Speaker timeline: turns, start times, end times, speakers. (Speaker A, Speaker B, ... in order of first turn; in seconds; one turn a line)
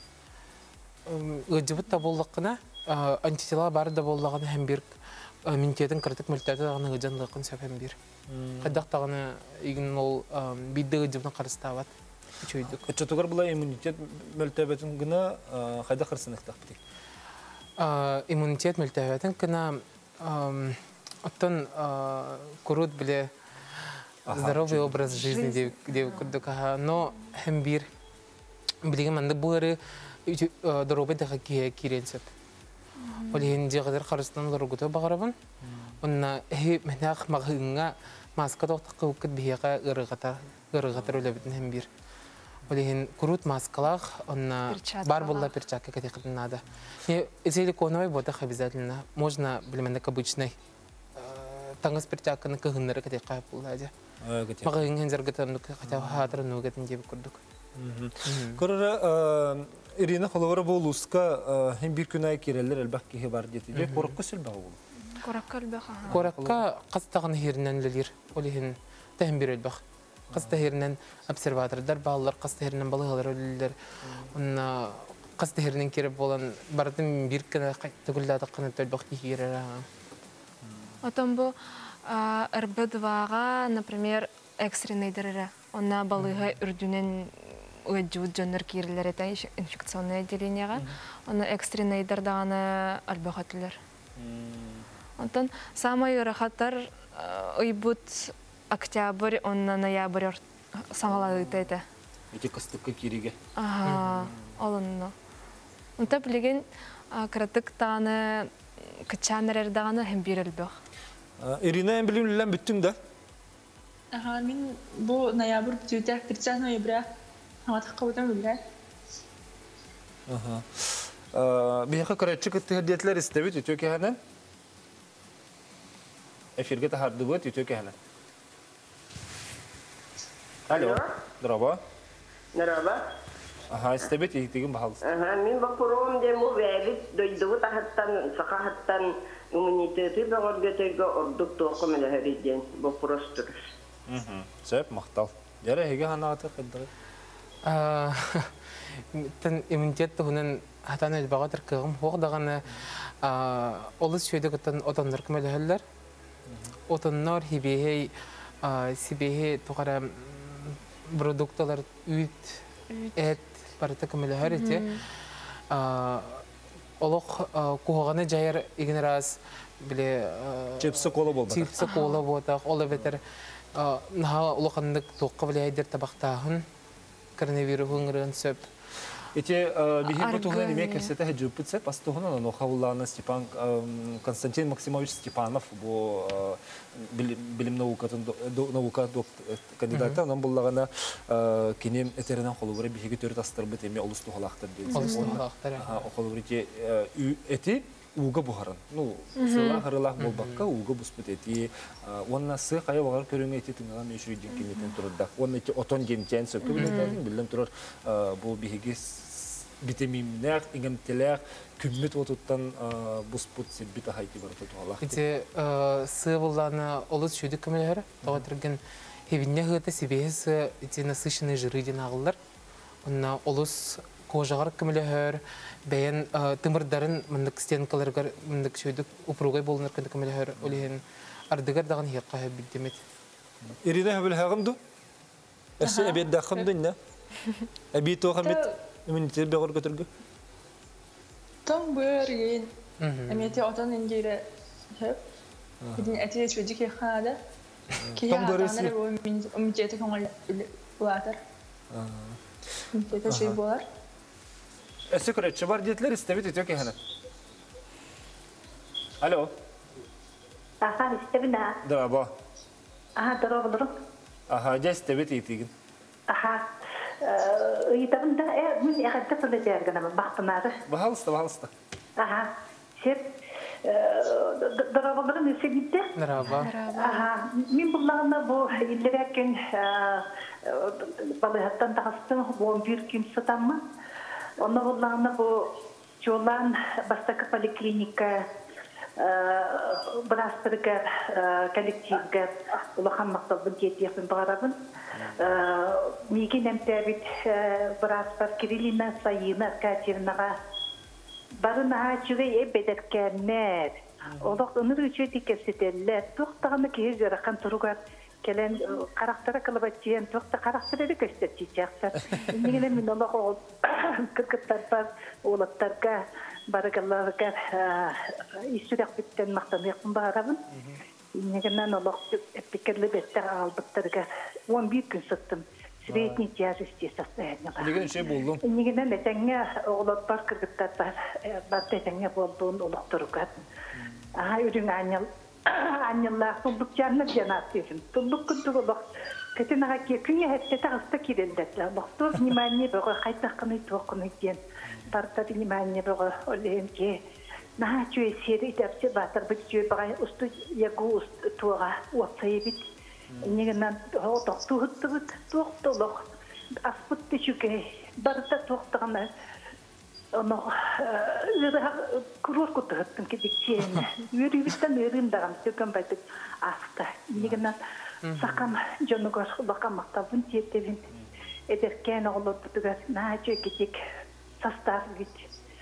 Speaker A: 1.1-4.9
Speaker A: 5.5-8.0
Speaker B: 8.3-8.8
Speaker A: 8.6-11.9
Speaker A: 12.4-12.8
Speaker B: 12.6-16.8
Speaker A: 17.8-23.3
Speaker B: 24.3-25.2
Speaker A: 24.3-27.9
Speaker C: 25.2-26.3
Speaker A: 28.8-32.3
Speaker C: 33.0-33.5
Speaker A: 33.3-35.3
Speaker B: 35.6-36.0
Speaker A: 36.0-41.9
Speaker B: 40.9-41.5
Speaker A: 42.7-50.5
Speaker C: 44.7-45.6
Speaker A: 51.1-53.9
Speaker B: 54.2-54.7
Speaker A: 54.6-57.4
Speaker B: 55.9-56.4
Speaker B: 57.7-64.8
Speaker A: 58.2-58.6
Speaker A: 63.7-64.1
Speaker C: 65.1-66.2
Speaker B: 66.1-66.6
Speaker A: 66.1-69.8
Speaker A: 70.3-73.7
Speaker B: 70.3-70.6
Speaker B: 74.0-74.3
Speaker A: 74.3-79.8
Speaker B: 80.6-81.0
Speaker C: 81.0-93.8
Speaker B: 94.2-94.9
Speaker C: 95.2-101.8
Speaker B: 102.3-103.3
Speaker C: 103.6-105.1
Speaker B: 104.1-104.5
Speaker C: 106.0-110.7
Speaker B: 111.4-113.0
Speaker D: 114.1-117.1
Speaker D: 117.7-118.6
Speaker B: 120.3-124.2
Speaker B: 126.5-127.9
Speaker E: 130.7-131.0
Speaker B: 130.7-131.8
Speaker E: 132.6-133.0
Speaker B: 133.7-135.0
Speaker E: 135.0-143.5
Speaker B: 144.1-146.9
Speaker A: 147.6-155.8
Speaker A: 156.9-158.1
Speaker A: 158.6-162.6
Speaker C: 162.9-163.3
Speaker A: 163.2-164.8
Speaker C: 164.4-165.0
Speaker A: 165.7-166.4
Speaker A: 167.0-173.2
Speaker B: 170.8-171.7
Speaker C: 171.8-172.2
Speaker A: 173.7-176.6
Speaker A: 177.4-178.7
Speaker B: 179.3-215.2
Speaker C: 180.1-181.1
Speaker A: 189.9-190.2
Speaker C: 194.9-195.4
Speaker A: 194.9-196.0
Speaker C: 199.4-199.8
Speaker A: 200.2-200.6
Speaker C: 206.6-207.2
Speaker A: 206.8-207.1
Speaker A: 215.0-222.4
Speaker A: 223.0-233.0
Speaker B: 230.6-230.8
Speaker B: 233.6-234.8
Speaker B: 235.8-237.0
Speaker D: 235.8-236.2
Speaker B: 237.9-240.1
Speaker D: 241.6-242.7
Speaker A: 243.0-243.6
Speaker D: 243.3-245.2
Speaker B: 245.8-246.2
Speaker D: 246.0-247.4
Speaker B: 248.0-248.9
Speaker D: 248.2-251.4
Speaker B: 251.9-252.4
Speaker D: 252.9-253.8
Speaker B: 253.3-253.6
Speaker B: 255.1-256.9
Speaker B: 259.2-259.5
Speaker F: 260.8-261.7
Speaker B: 261.8-262.3
Speaker F: 263.2-263.9
Speaker B: 264.5-265.7
Speaker F: 266.3-270.8
Speaker B: 270.9-271.7
Speaker F: 272.2-273.3
Speaker F: 273.9-276.1
Speaker A: 276.2-276.7
Speaker C: 276.6-277.3
Speaker F: 276.9-283.8
Speaker F: 284.6-288.5
Speaker F: 289.2-294.8
Speaker B: 295.1-295.5
Speaker F: 295.4-300.5
Speaker F: 301.6-320.6
Speaker B: 304.3-304.6
Speaker B: 312.1-313.0
Speaker B: 320.7-321.0
Speaker F: 321.3-333.5
Speaker B: 326.1-326.4
Speaker B: 327.8-328.6
Speaker B: 333.9-334.4
Speaker F: 334.3-339.0
Speaker F: 339.6-347.2
Speaker B: 344.8-345.2
Speaker F: 347.8-352.9
Speaker B: 353.3-353.7
Speaker F: 353.4-356.3
Speaker F: 356.8-359.3
Speaker F: 360.3-367.8
Speaker B: 367.4-367.6
Speaker A: 368.2-368.6
Speaker F: 368.4-371.1
Speaker F: 371.7-374.0
Speaker F: 374.6-375.5